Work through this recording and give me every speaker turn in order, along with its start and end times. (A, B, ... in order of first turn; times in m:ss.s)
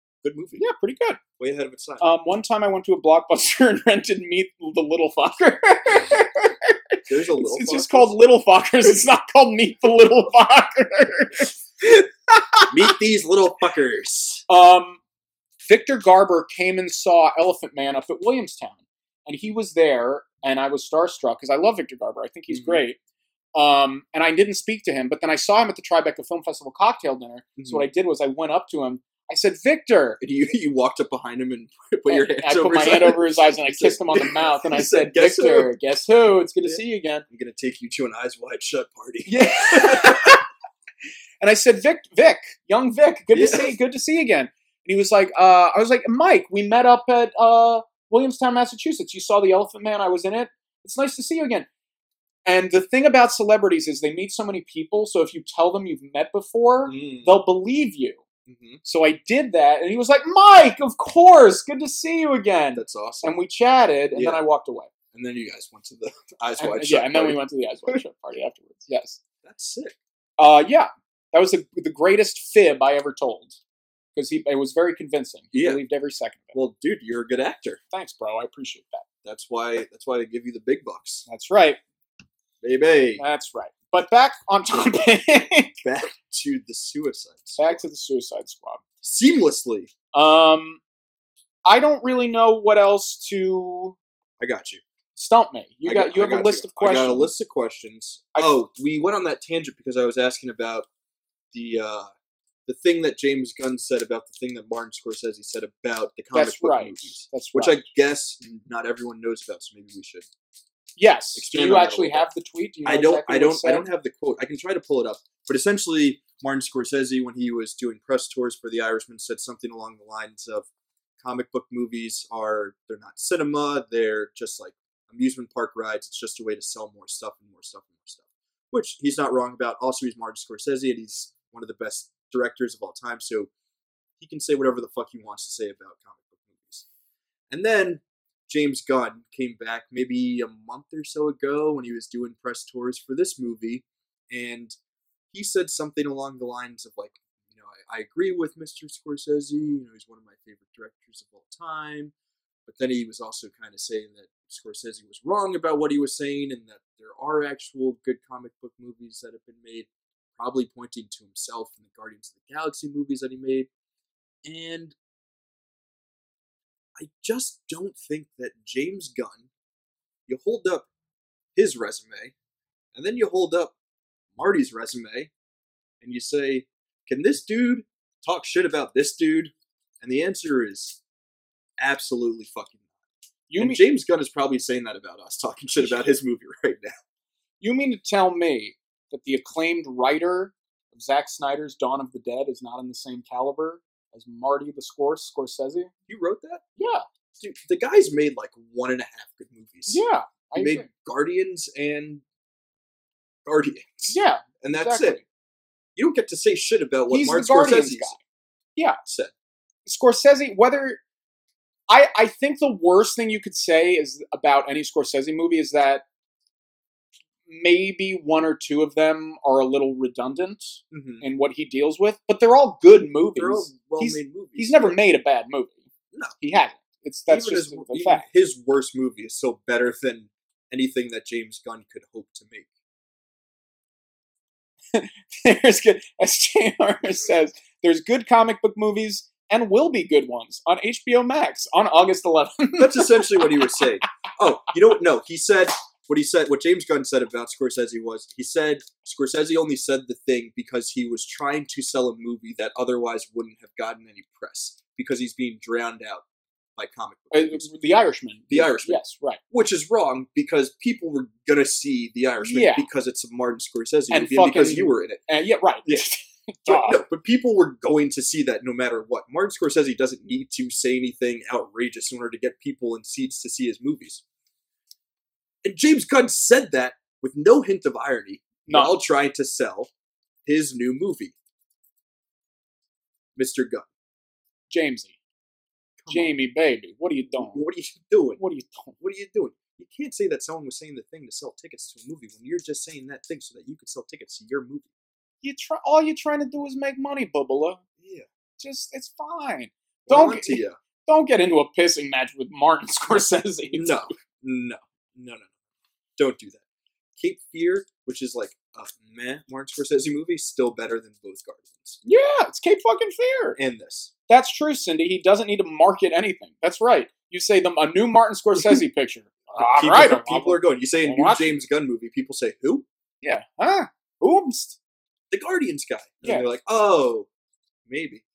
0:00.2-0:00.6 A
0:00.6-0:01.2 B
0:01.4-0:02.0 A
0:02.0-0:12.9 B
0:07.1-0:08.2 A
0:12.7-0:14.4 A
0:14.5-0:15.0 B
0:15.7-0:23.0 B
0:22.5-0:22.8 A
0:23.5-0:30.2 B
0:27.6-0:27.9 A
0:30.2-0:35.7 A
0:32.1-0:37.2 B
0:36.6-0:40.4 A
0:39.3-0:40.4 B
0:41.4-0:51.7 B
0:43.3-0:43.7 A
0:52.4-0:58.2 B
0:56.9-0:57.4 A
0:58.5-0:58.8 A
0:58.8-1:04.9 B
1:02.7-1:03.4 A
1:04.1-1:04.4 A
1:05.1-1:08.0 A
1:06.6-1:09.2 B
1:09.4-1:10.0 A
1:10.4-1:13.6 B
1:14.1-1:16.6 B
1:15.5-1:15.8 A
1:16.5-1:17.8 A
1:17.9-1:19.0 B
1:19.2-1:21.2 A
1:21.3-1:21.8 B
1:22.6-1:23.2 A
1:23.2-1:25.8 B
1:25.8-1:27.8 A
1:27.6-1:28.8 B
1:29.0-1:29.9 A
1:30.1-1:30.8 B
1:31.6-1:34.0 B
1:34.4-1:34.8 A
1:35.2-1:37.3 B
1:35.8-1:40.9 A
1:41.5-1:42.1 A
1:42.6-1:50.3 A
1:46.3-1:47.8 B
1:51.0-1:53.8 B
1:51.3-1:52.2 A
1:52.8-2:00.7 A
2:01.2-2:13.5 A
2:14.2-2:16.8 A
2:17.5-2:24.7 A
2:25.3-2:32.1 A
2:32.7-2:43.7 A
2:44.4-2:45.0 A
2:47.0-2:49.5 A
2:50.3-2:50.9 A
2:51.6-2:52.3 A
2:52.9-2:53.7 A
2:54.4-2:55.3 A
2:56.0-3:01.0 A
3:01.8-3:02.8 A
3:03.5-3:03.8 B
3:03.6-3:06.9 A
3:07.6-3:15.9 B
3:16.1-3:16.6 A
3:16.8-3:17.0 B
3:17.4-3:20.0 A
3:19.8-3:20.9 B
3:20.6-3:22.2 A
3:23.4-3:25.2 A
3:24.1-3:25.2 B
3:26.0-3:28.2 A
3:27.1-3:28.2 B
3:29.0-3:29.3 A
3:29.8-3:31.0 B
3:31.9-3:36.0 B
3:37.5-3:45.8 B
3:40.9-3:41.2 A
3:43.4-3:45.0 A
3:46.4-3:48.2 B
3:47.3-3:52.7 A
3:54.9-4:03.8 B
4:02.8-4:16.2 A
4:16.8-4:17.7 A
4:17.3-4:19.4 B
4:18.5-4:19.0 A
4:19.5-4:25.2 A
4:22.4-4:22.9 B
4:24.1-4:27.0 B
4:26.7-4:34.2 A
4:35.6-4:39.9 A
4:38.6-4:38.9 B
4:40.4-4:41.3 A
4:43.4-4:43.9 A
4:44.7-4:45.2 B
4:46.0-4:46.3 A
4:46.1-4:47.6 B
4:47.3-4:48.4 A
4:48.4-4:49.0 B
4:49.0-4:54.9 A
4:55.4-4:57.8 B
4:58.0-4:58.3 A
4:58.6-5:04.1 B
5:00.0-5:00.8 A
5:03.7-5:05.5 A
5:06.2-5:06.6 A
5:07.2-5:12.0 A
5:12.0-5:13.6 B
5:13.6-5:14.1 A
5:14.3-5:21.5 B
5:19.5-5:22.8 A
5:23.2-5:24.8 B
5:25.3-5:27.3 A
5:27.9-5:28.2 A